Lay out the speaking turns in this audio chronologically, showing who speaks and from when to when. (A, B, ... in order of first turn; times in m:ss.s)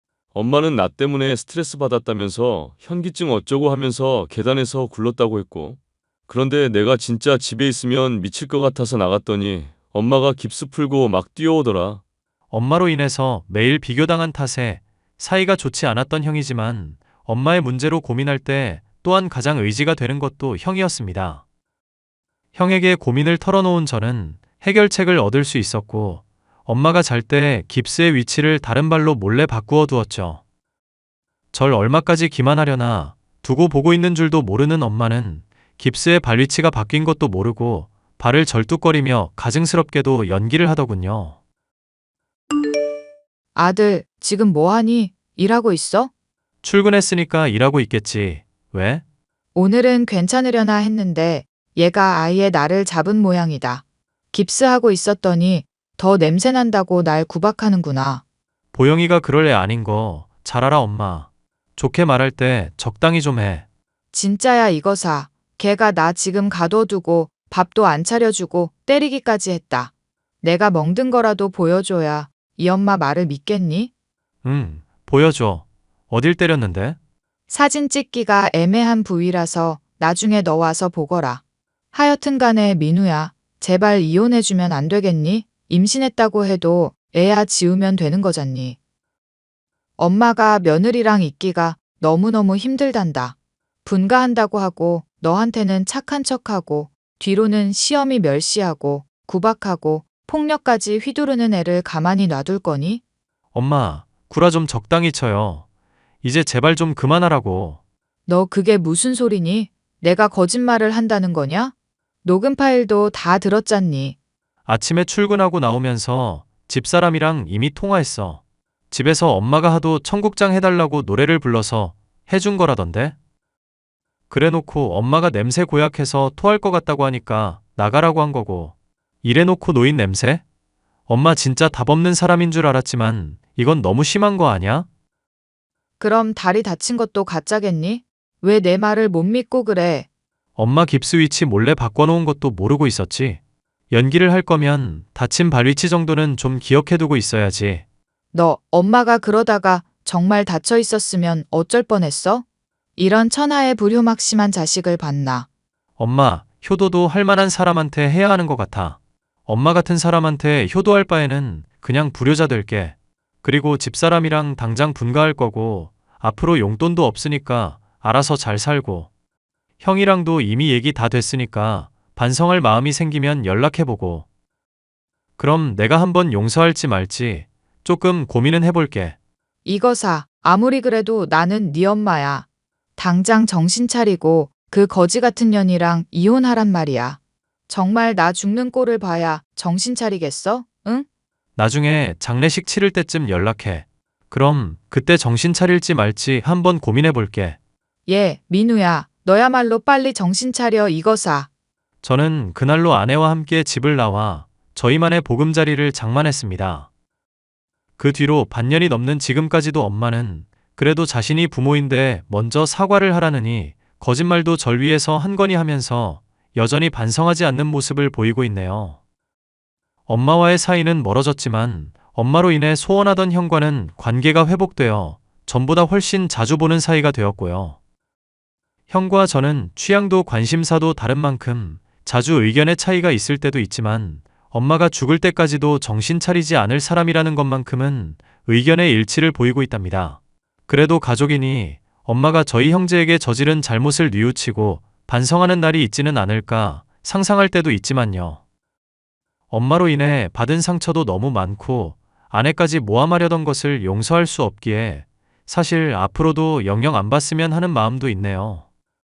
0:00.3-0:05.8 A
0:06.3-0:12.0 A
0:12.5-0:21.4 B
0:22.5-0:30.4 B
0:31.5-0:41.4 B
0:43.5-0:46.1 C
0:46.6-0:49.0 B
0:49.5-0:58.2 C
0:58.7-1:03.6 B
1:04.1-1:09.9 C
1:10.4-1:13.9 C
1:14.4-1:17.0 B
1:17.5-1:21.4 C
1:21.9-1:28.8 C
1:30.0-1:43.0 C
1:43.5-1:45.6 B
1:46.2-1:47.8 B
1:48.3-1:51.7 C
1:52.2-1:54.1 C
1:54.6-2:03.1 B
2:04.3-2:10.4 B
2:11.1-2:14.9 B
2:16.0-2:20.0 C
2:20.6-2:23.4 B
2:23.9-2:27.8 B
2:28.3-2:32.4 C
2:33.0-2:35.4 C
2:36.0-2:49.1 B
2:49.8-2:54.2 B
2:55.4-2:59.1 B
2:59.6-3:02.4 C
3:03.0-3:07.2 C
3:07.7-3:11.0 C
3:11.6-3:17.6 B
3:18.1-3:21.5 C
3:22.0-3:26.9 B
3:28.0-3:39.0 B
3:40.1-3:47.8 B
3:48.9-4:08.4 B
4:09.5-4:18.6 B